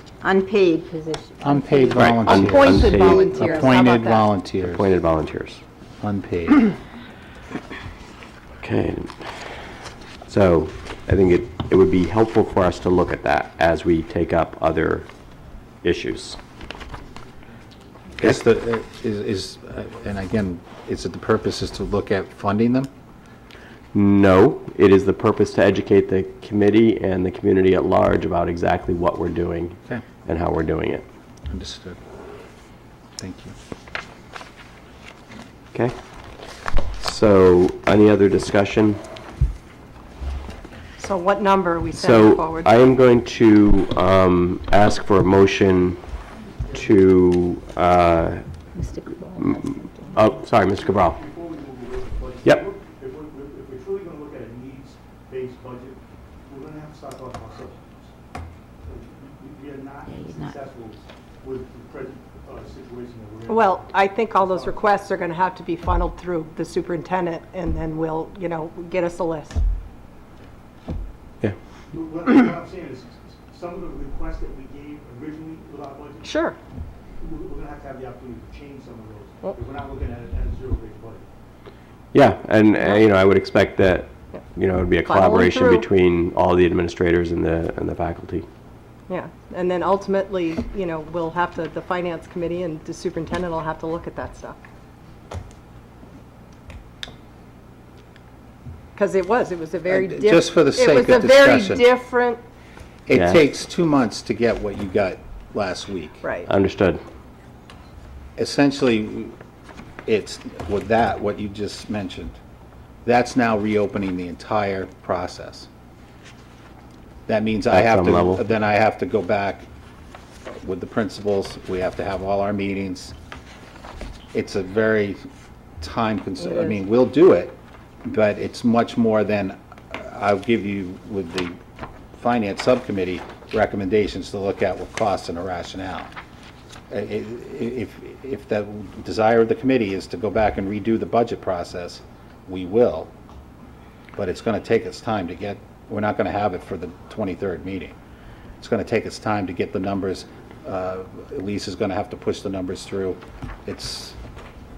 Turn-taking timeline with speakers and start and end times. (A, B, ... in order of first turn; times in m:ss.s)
0:00.2-0:02.1 A
0:01.4-0:04.9 B
0:01.9-0:03.3 C
0:02.2-0:04.3 D
0:02.9-0:03.8 A
0:04.6-0:05.6 C
0:06.0-0:06.7 B
0:08.6-0:09.5 C
0:10.2-0:15.1 C
0:15.8-0:16.4 C
0:18.2-0:22.9 B
0:23.9-0:31.0 C
0:31.5-0:32.0 B
0:33.2-0:33.5 B
0:37.0-0:39.0 C
0:41.0-0:42.7 D
0:42.0-0:46.0 C
0:46.7-0:48.4 C
0:48.7-0:50.2 A
0:49.4-0:51.2 C
0:50.8-0:58.1 E
0:58.8-1:04.9 E
1:03.5-1:09.6 D
1:11.9-1:16.4 E
1:16.2-1:16.6 D
1:17.2-1:21.2 E
1:22.1-1:28.5 C
1:25.0-1:25.9 D
1:29.1-1:34.6 D
1:39.0-1:42.4 D
1:39.9-1:41.8 B
1:43.1-1:46.2 B
1:43.1-1:43.4 C
1:46.2-1:46.5 D
1:46.5-1:47.0 C
1:48.4-1:49.3 B
1:50.0-1:52.4 B
1:53.0-1:55.7 B
1:57.3-1:59.7 B
1:57.7-1:58.4 C
2:00.5-2:03.1 B
2:04.3-2:05.2 B
2:05.8-2:11.5 B
2:06.4-2:06.8 D
2:12.1-2:16.1 B
2:16.9-2:23.1 B
2:24.1-2:27.9 B
2:28.6-2:34.2 B